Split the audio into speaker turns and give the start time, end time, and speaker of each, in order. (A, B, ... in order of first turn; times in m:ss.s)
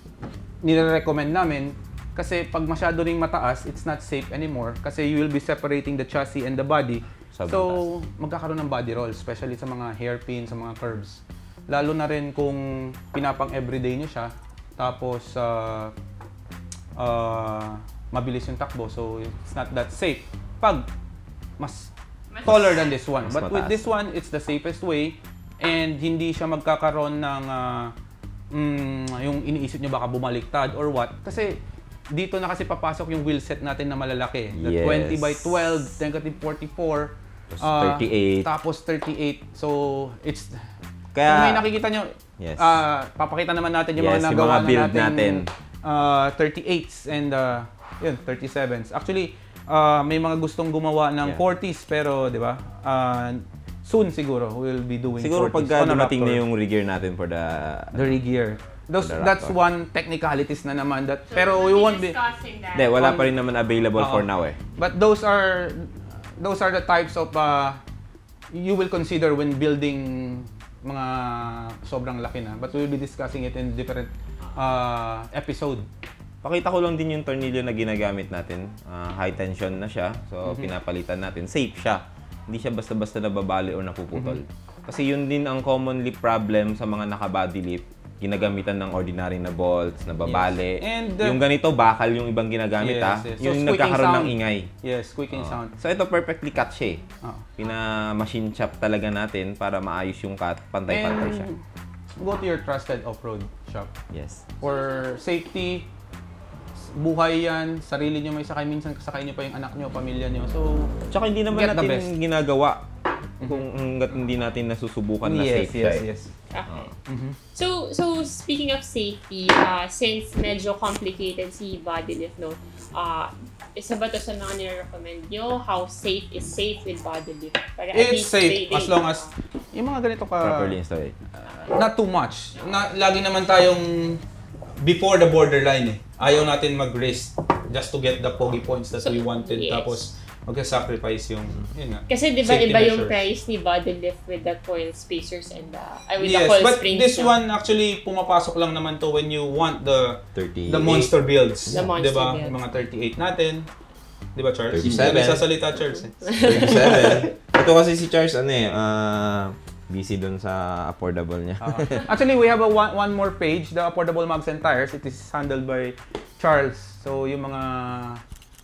0:00.6-0:15.9 A
0:07.3-0:07.8 B
0:17.0-0:20.9 A
0:21.6-0:21.9 A
0:22.3-0:23.0 C
0:22.4-0:27.9 A
0:23.2-0:23.8 B
0:28.5-0:31.6 A
0:32.1-0:40.6 A
0:34.5-0:35.7 B
0:37.5-0:38.5 B
0:41.1-0:41.6 B
0:41.2-0:56.4 A
0:42.4-0:42.8 B
0:44.0-0:45.5 B
0:55.2-0:58.2 B
0:57.9-1:02.1 A
0:59.0-0:59.5 B
1:01.3-1:03.2 C
1:02.7-1:04.6 B
1:03.0-1:03.3 A
1:04.0-1:07.8 A
1:08.5-1:15.8 A
1:16.4-1:34.7 B
1:20.4-1:20.7 A
1:30.2-1:31.4 A
1:32.8-1:35.7 A
1:35.3-1:37.0 B
1:37.6-1:41.5 B
1:40.9-1:41.6 A
1:42.2-1:43.9 A
1:44.1-1:44.4 B
1:44.6-1:45.9 A
1:44.6-1:45.1 C
1:46.8-1:50.9 A
1:51.1-1:52.9 B
1:51.5-1:52.1 A
1:53.4-1:53.7 A
1:53.4-1:56.0 B
1:55.2-1:56.3 A
1:56.5-1:56.9 C
1:57.1-1:57.4 A
1:57.5-2:09.3 C
2:07.9-2:10.8 A
2:10.4-2:11.2 B
2:11.3-2:14.2 A
2:14.8-2:23.2 A
2:19.0-2:20.1 C
2:22.1-2:27.3 C
2:26.2-2:33.7 A
2:30.3-2:31.1 B
2:31.7-2:32.6 C
2:34.3-2:36.2 A
2:34.7-2:35.5 B
2:36.2-2:37.3 C
2:36.4-2:42.1 B
2:41.6-2:48.2 A